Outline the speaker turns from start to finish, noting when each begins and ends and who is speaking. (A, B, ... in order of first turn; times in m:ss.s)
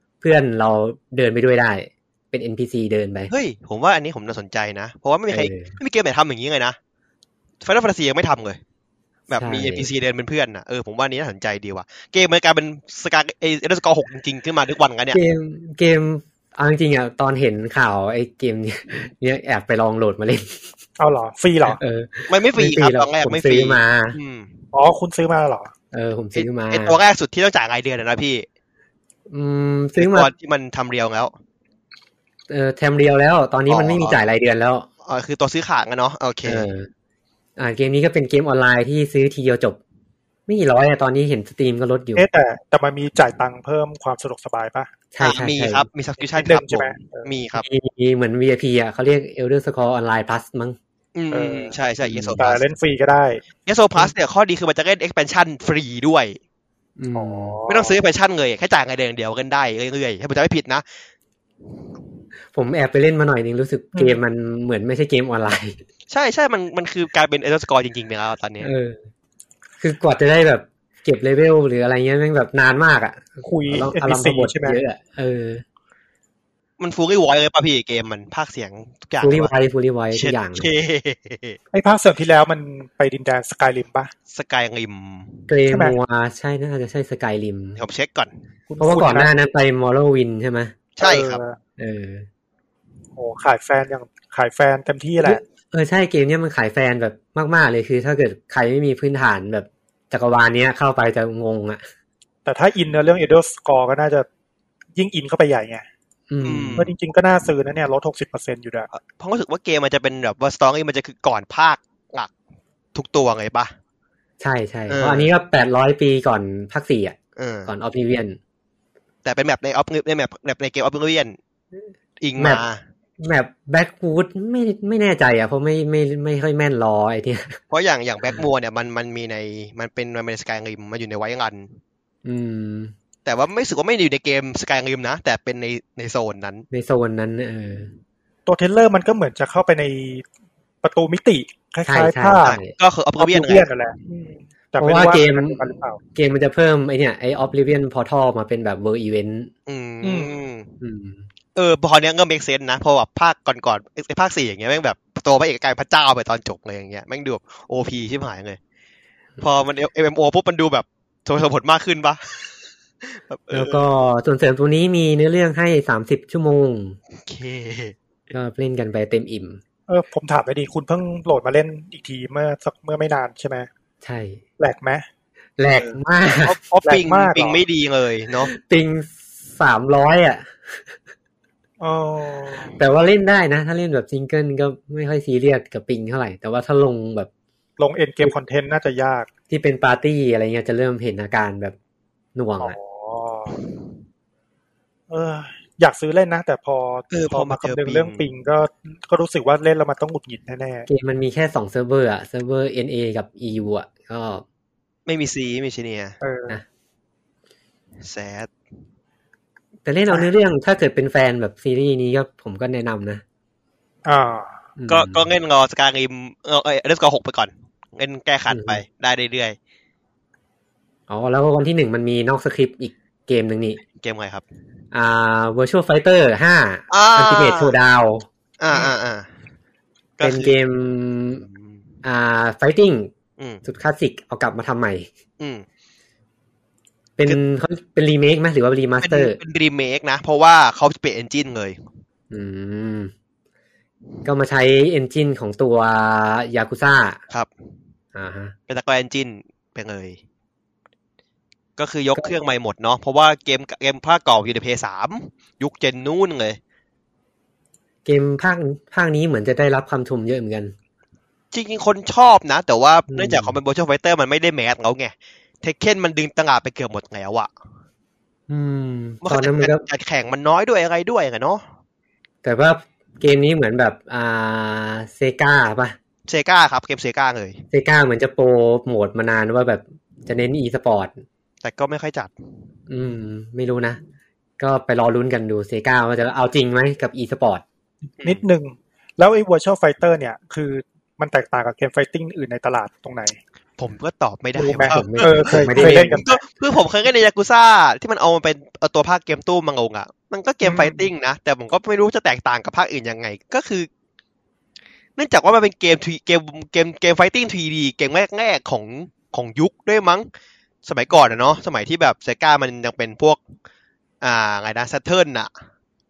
0:00.2-0:03.3 A
0:03.3-0:06.8 B
0:05.3-0:05.8 A
0:07.6-0:08.6 B
0:09.3-0:15.2 B
0:09.3-0:09.9 A
0:15.1-0:20.7 A
0:21.0-0:21.8 C
0:21.7-0:24.2 A
0:22.3-0:24.6 B
0:24.7-0:25.7 C
0:25.9-0:27.0 A
0:26.4-0:28.5 B
0:29.3-0:30.3 A
0:30.0-0:31.3 B
0:32.5-0:34.9 A
0:33.7-0:34.2 B
0:35.0-0:36.7 B
0:36.4-0:36.9 A
0:37.6-0:39.8 A
0:40.5-0:42.3 A
0:42.2-0:44.9 C
0:45.1-0:45.9 A
0:45.2-0:47.6 B
0:46.3-0:47.3 C
0:47.6-0:50.8 A
0:51.2-0:52.6 B
0:51.3-0:51.8 C
0:52.0-0:52.4 A
0:52.4-0:53.4 C
0:53.6-0:56.4 B
0:57.0-0:57.6 A
0:57.2-0:58.0 C
0:57.7-1:00.8 B
1:02.5-1:05.8 A
1:06.1-1:08.7 B
1:08.6-1:09.0 A
1:09.8-1:15.6 A
1:13.4-1:14.8 C
1:16.8-1:19.5 B
1:19.2-1:20.7 A
1:20.1-1:21.6 B
1:21.7-1:24.1 C
1:24.3-1:25.5 B
1:25.5-1:27.8 A
1:25.7-1:26.0 C
1:27.8-1:28.3 B
1:28.7-1:29.3 C
1:28.8-1:30.8 A
1:31.0-1:31.4 B
1:31.0-1:31.6 C
1:31.8-1:32.3 A
1:33.2-1:35.4 C
1:35.2-1:41.8 A
1:42.5-1:44.3 C
1:45.0-1:45.8 C
1:46.3-1:46.9 A
1:46.4-1:46.9 B
1:46.8-1:48.9 C
1:48.9-1:52.3 B
1:52.9-1:53.7 B
1:54.4-1:58.4 A
1:54.9-1:55.3 B
1:57.4-1:57.7 B
1:59.2-2:01.4 B
2:02.2-2:02.8 B
2:02.4-2:02.6 A
2:03.2-2:07.6 A
2:07.7-2:11.8 B
2:12.2-2:12.9 A
2:13.2-2:16.7 B
2:16.7-2:17.9 A
2:18.5-2:20.2 C
2:20.8-2:22.6 C
2:21.9-2:22.7 A
2:22.4-2:23.7 B
2:23.2-2:26.0 C
2:24.8-2:29.5 A
2:29.7-2:30.7 B
2:30.0-2:30.4 C
2:30.8-2:31.3 A
2:31.6-2:38.6 B
2:39.4-2:43.9 B
2:43.5-2:47.0 A
2:47.2-2:48.0 B
2:48.3-2:49.6 A
2:49.9-2:53.7 C
2:54.0-2:54.4 A
2:54.6-2:55.0 C
2:55.6-2:56.6 A
2:55.8-2:58.5 B
2:56.8-2:57.6 C
2:58.5-3:00.9 A
3:01.8-3:02.7 C
3:02.8-3:07.3 A
3:07.8-3:09.3 C
3:09.5-3:11.8 A
3:12.4-3:12.8 A
3:12.6-3:13.6 C
3:15.1-3:20.9 C
3:17.1-3:18.3 B
3:20.9-3:24.4 A
3:25.1-3:26.2 B
3:26.2-3:26.6 C
3:28.0-3:28.5 B
3:29.8-3:33.2 A
3:34.0-3:34.6 C
3:34.8-3:35.3 A
3:34.9-3:39.6 B
3:38.5-3:38.8 A
3:41.1-3:43.8 A
3:44.0-3:44.4 B
3:44.9-3:48.3 A
3:46.9-3:47.8 B
3:48.6-3:49.3 B
3:50.2-3:50.6 B
3:50.2-3:51.5 A
3:51.5-3:51.8 B
3:52.0-3:53.1 A
3:53.6-3:55.1 A
3:55.4-3:55.7 B
3:57.2-3:59.4 A
3:59.0-4:01.8 B
4:02.3-4:03.1 A
4:04.2-4:07.2 A
4:08.2-4:08.5 A
4:08.7-4:10.2 B
4:11.8-4:16.6 B
4:18.1-4:20.8 A
4:21.5-4:27.5 B
4:23.1-4:23.6 A
4:28.5-4:29.8 A
4:29.2-4:31.6 B
4:32.4-4:36.0 A
4:36.3-4:37.6 B
4:37.7-4:41.2 A
4:41.6-4:42.3 B
4:42.9-4:44.0 A
4:44.6-4:47.6 A
4:48.2-4:48.4 B
4:48.2-4:53.4 C
4:53.8-5:03.9 B
4:54.6-4:56.4 C
4:54.6-4:56.2 A
5:00.6-5:01.0 C
5:05.2-5:10.3 B
5:10.8-5:13.4 B
5:14.2-5:15.5 B